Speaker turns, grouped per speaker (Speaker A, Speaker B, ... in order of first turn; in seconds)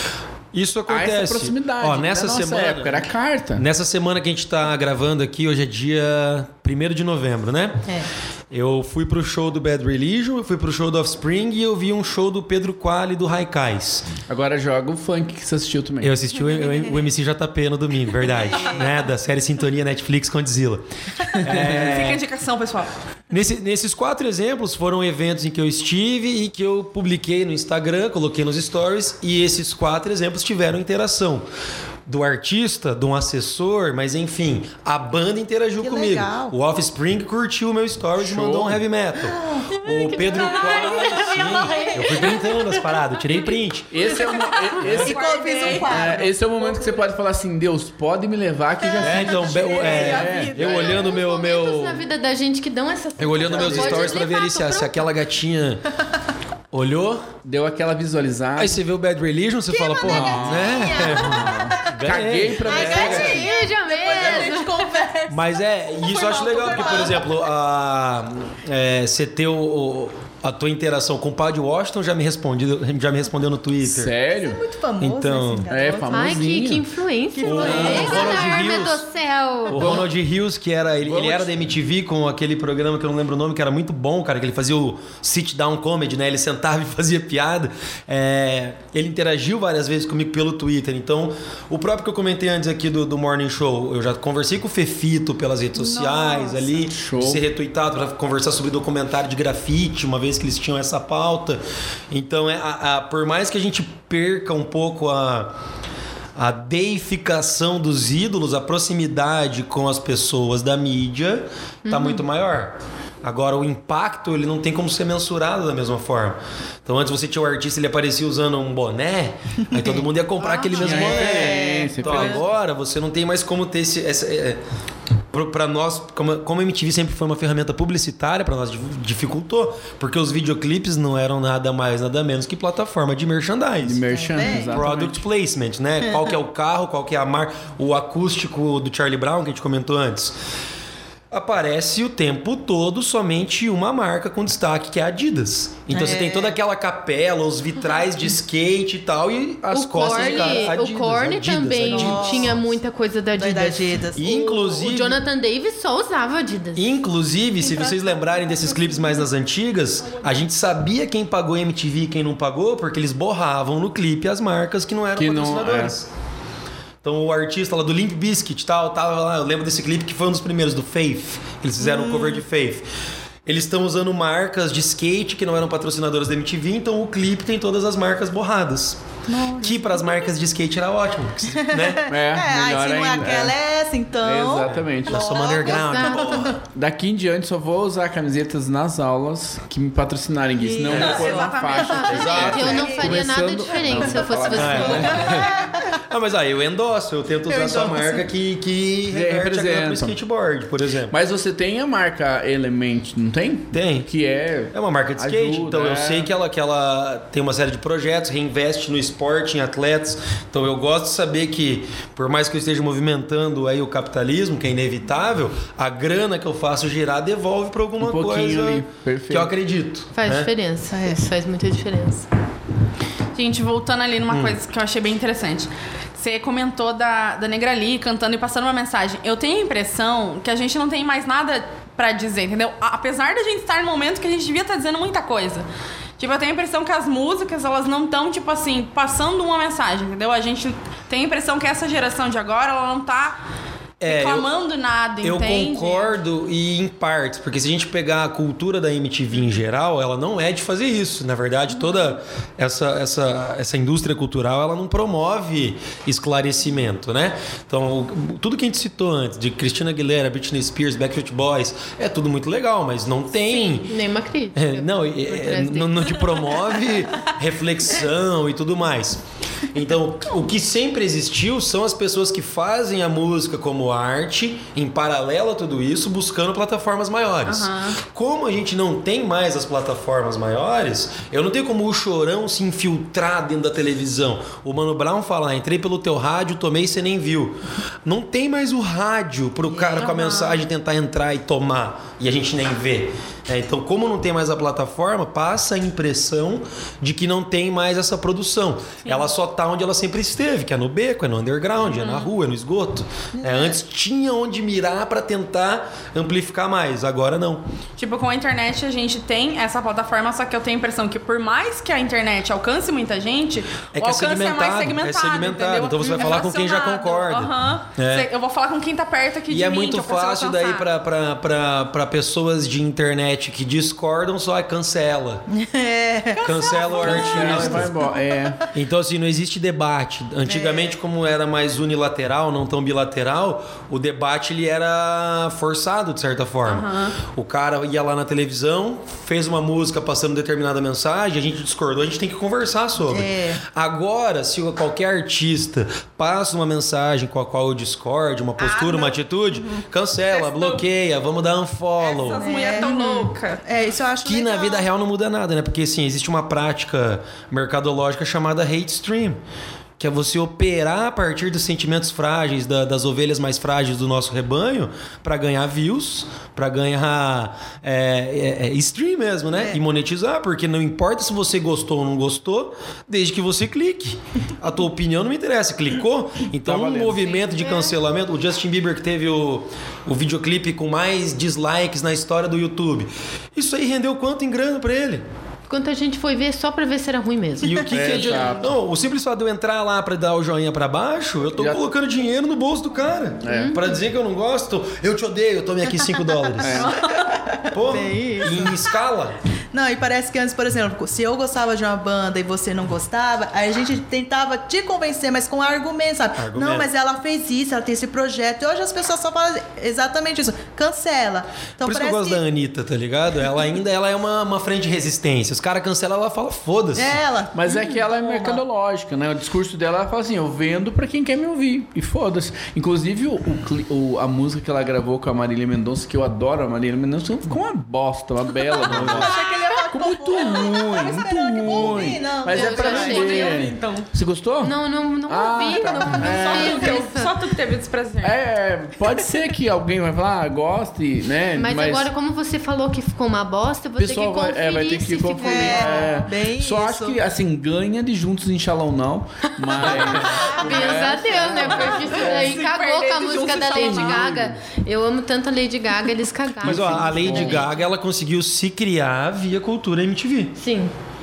Speaker A: 0.5-7.9, 8.5-14.1, 16.0-22.2, 23.3-31.5, 32.1-43.9, 44.8-45.1, 49.0-52.0, 53.2-55.8, 56.7-57.4, 58.6-63.5, 65.3-74.2, 75.0-75.7, 77.4-79.0, 79.7-101.6, 102.1-105.5, 106.4-124.6, 125.3-140.3, 141.3-152.6, 154.2-155.2, 156.8-166.1, 167.0-172.9, 173.5-179.0, 179.6-182.1, 184.7-186.6, 190.8-191.3, 191.9-193.0, 194.5-201.2, 203.7-204.1, 204.7-220.5, 224.3-224.6, 244.0-244.5, 245.2-264.0, 264.6-307.6, 313.9-318.3, 319.5-325.4, 326.4-327.9, 328.7-352.5, 354.2-359.4, 360.0-385.2, 387.6-397.0, 397.7-399.4, 406.4-406.9, 411.8-417.2, 428.9-429.3, 453.8-454.2, 456.6-460.6
Speaker B: 0.9-3.6, 14.3-16.1, 38.3-38.8, 43.9-51.0, 57.4-58.8, 60.0-63.5, 73.8-74.6, 75.7-76.9, 77.6-78.2, 79.7-80.1, 81.0-81.7, 96.9-97.4, 120.8-122.4, 133.8-135.3, 165.2-166.0, 182.1-183.6, 184.2-185.3, 186.6-195.3, 199.1-200.2, 201.1-206.3, 218.0-219.5, 327.0-328.6, 376.6-377.4, 387.9-388.7, 391.6-391.9, 393.4-393.8, 396.6-396.9, 417.5-434.8, 435.3-437.0, 438.2-442.1, 444.0-452.6, 453.8-454.5, 456.6-457.7
Speaker C: 18.5-18.9, 35.8-36.6, 39.4-42.4, 44.9-47.1, 49.2-50.9, 59.7-61.9, 62.6-65.5, 66.0-67.3, 74.3-76.5, 77.3-78.8, 95.8-96.9, 119.8-122.4, 134.1-134.8, 145.9-146.6, 150.1-150.6, 151.8-152.6, 153.4-154.4, 171.8-172.4, 179.3-179.9, 181.6-186.6, 190.6-193.2, 194.6-196.0, 197.5-198.3, 220.9-221.2, 289.7-290.1, 303.4-303.8, 325.6-326.7, 327.5-327.9, 330.5-331.0, 343.1-343.6, 352.4-353.0, 353.6-354.9, 396.7-398.8, 399.7-412.4, 416.9-417.6, 428.9-433.4, 445.4-447.2
Speaker D: 21.5-22.9, 40.5-42.2, 44.0-46.3, 49.4-51.1, 190.9-192.9, 223.3-235.7, 236.2-243.4, 244.1-246.2, 277.5-278.0, 290.0-290.6, 299.1-299.3, 301.9-302.3, 308.0-320.9, 326.3-327.9, 336.7-337.2, 348.6-350.9, 352.0-353.6, 387.9-388.6, 396.7-397.2, 432.5-434.1, 435.8-438.4, 449.8-454.3
Speaker E: 50.8-55.0, 62.7-65.0, 75.9-79.8, 111.9-112.2, 149.7-156.9, 185.7-186.3, 191.9-195.3, 220.1-222.3, 263.5-266.3, 352.8-353.3, 377.6-377.9, 385.7-387.9, 393.5-393.9, 417.7-418.0, 432.5-433.6, 434.6-437.4, 441.6-446.1, 449.8-457.7, 460.6-460.9